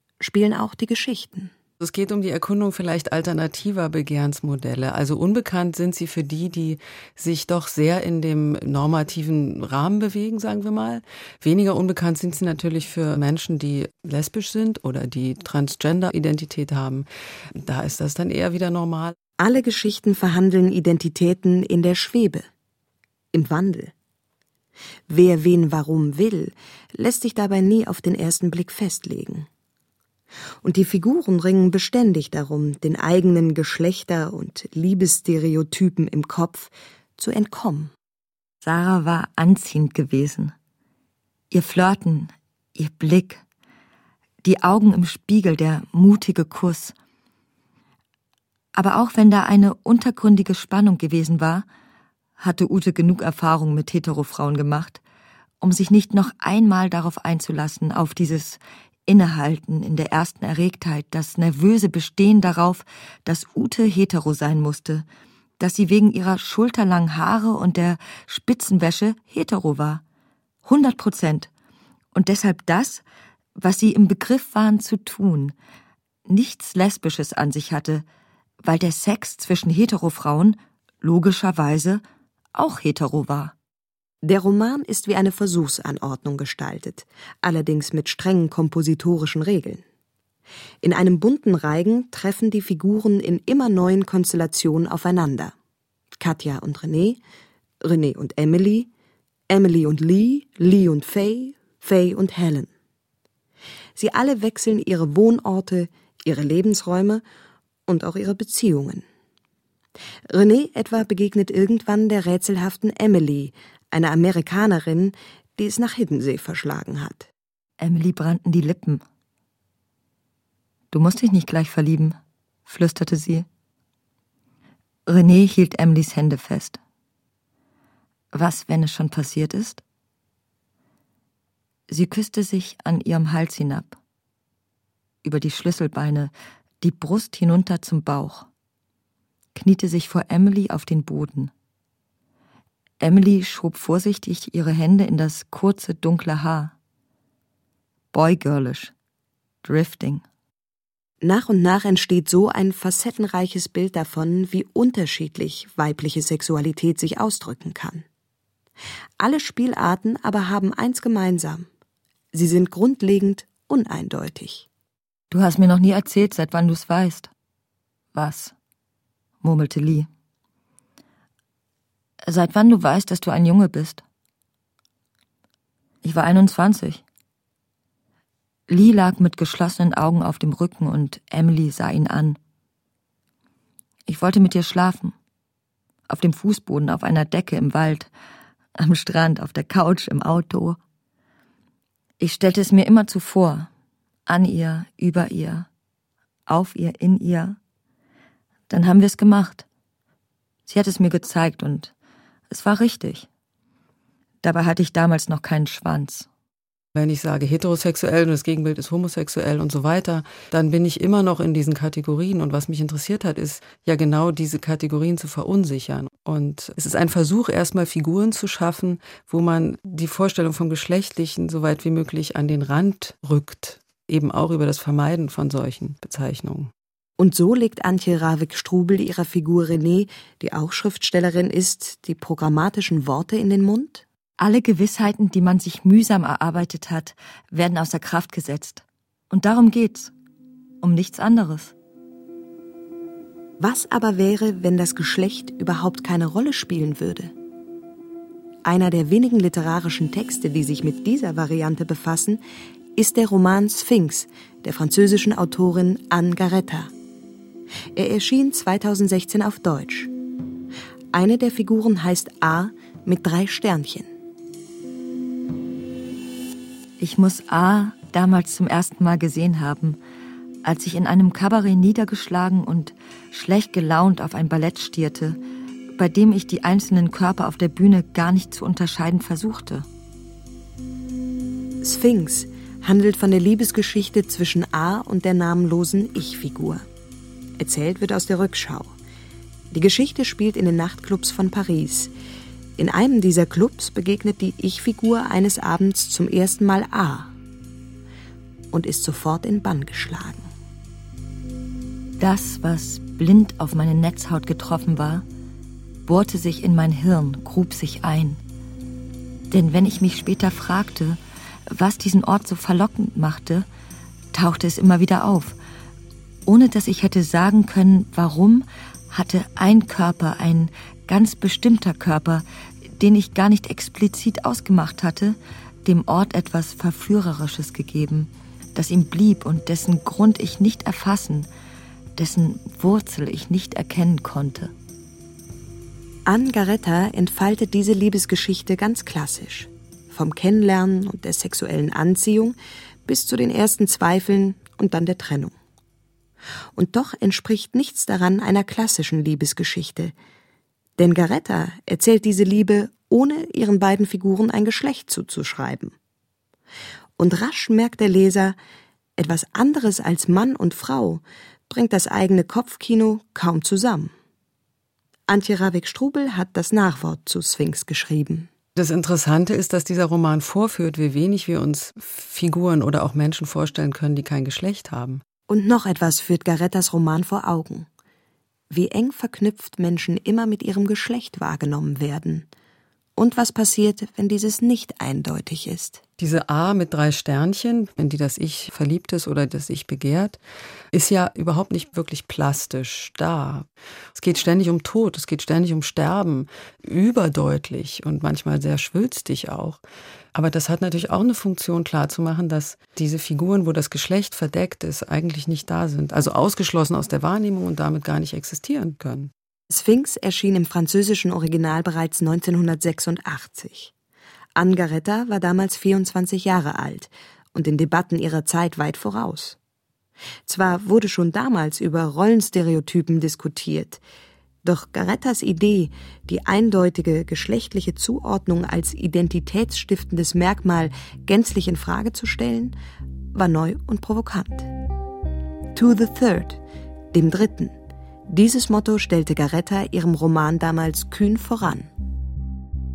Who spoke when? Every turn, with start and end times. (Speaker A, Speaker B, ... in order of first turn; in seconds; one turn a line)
Speaker A: 0.2-1.5
Speaker B: 1.8-19.1
Speaker A: 19.4-22.4
Speaker A: 23.3-23.9
Speaker A: 25.1-29.5
Speaker A: 30.6-37.9
Speaker C: 38.6-40.5
Speaker C: 41.5-43.4
Speaker C: 44.4-46.9
Speaker C: 48.7-51.6
Speaker C: 52.4-55.0
Speaker C: 55.6-65.0
Speaker C: 65.6-70.0
Speaker C: 70.6-71.5
Speaker C: 72.1-73.0
Speaker C: 73.6-75.5
Speaker C: 76.3-78.0
Speaker C: 78.6-82.0
Speaker C: 82.5-83.5
Speaker A: 84.2-89.8
Speaker A: 90.8-95.5
Speaker A: 96.2-97.2
Speaker A: 97.8-98.9
Speaker A: 99.5-102.7
Speaker A: 104.0-107.2
Speaker A: 107.9-109.0
Speaker A: 110.3-117.3
Speaker C: 117.8-119.0
Speaker C: 120.9-123.5
Speaker C: 125.1-126.8
Speaker C: 128.3-129.8
Speaker C: 131.9-134.0
Speaker C: 135.2-138.5
Speaker C: 139.5-141.5
Speaker C: 143.0-146.7
Speaker C: 148.1-148.9
Speaker C: 149.6-150.2
Speaker A: 151.2-158.0
Speaker A: 159.2-161.7
Speaker A: 162.3-164.7
Speaker C: 165.3-167.3
Speaker C: 168.1-168.5
Speaker C: 169.4-170.1
Speaker C: 172.2-174.0
Speaker C: 176.0-177.0
Speaker C: 178.7-182.4
Speaker C: 184.1-185.1
Speaker C: 186.1-188.1
Speaker C: 188.8-190.8
Speaker C: 192.2-193.7
Speaker C: 194.3-195.7
Speaker C: 196.5-197.6
Speaker C: 198.7-199.7
Speaker C: 200.7-201.9
Speaker C: 202.5-203.3
Speaker C: 204.4-206.3
Speaker B: 206.9-226.7
Speaker A: 227.2-234.0
Speaker C: 234.4-240.1
Speaker C: 240.8-241.7
Speaker A: 243.6-247.3
Speaker A: 248.6-252.4
Speaker A: 252.9-256.9
Speaker A: 257.9-260.1
Speaker A: 261.1-264.1
Speaker C: 267.0-270.0
Speaker C: 270.6-275.4
Speaker C: 276.0-279.9
Speaker A: 281.8-286.8
Speaker A: 287.6-288.9
Speaker A: 289.7-292.1
Speaker A: 292.8-297.3
Speaker A: 298.7-300.5
Speaker C: 302.2-305.2
Speaker C: 306.1-308.4
Speaker C: 309.5-311.2
Speaker C: 311.7-313.7
Speaker C: 314.3-315.6
Speaker C: 316.4-322.4
Speaker C: 323.0-331.5
Speaker C: 332.2-334.7
Speaker A: 336.2-342.5
Speaker A: 343.1-345.5
Speaker A: 346.7-350.1
Speaker A: 351.0-355.9
Speaker A: 357.2-358.6
Speaker A: 359.2-364.1
Speaker A: 365.3-368.5
Speaker B: 368.8-375.2
Speaker A: 375.5-377.9
Speaker A: 378.7-382.5
Speaker A: 383.1-386.0
Speaker B: 386.2-390.4
Speaker B: 390.9-399.8
Speaker B: 400.3-409.3
Speaker A: 409.7-413.9
Speaker A: 414.5-419.6
Speaker A: 420.4-424.0
Speaker A: 424.6-432.8
Speaker A: 433.3-434.7
Speaker A: 435.7-436.6
Speaker A: 437.1-437.8
Speaker A: 438.3-441.9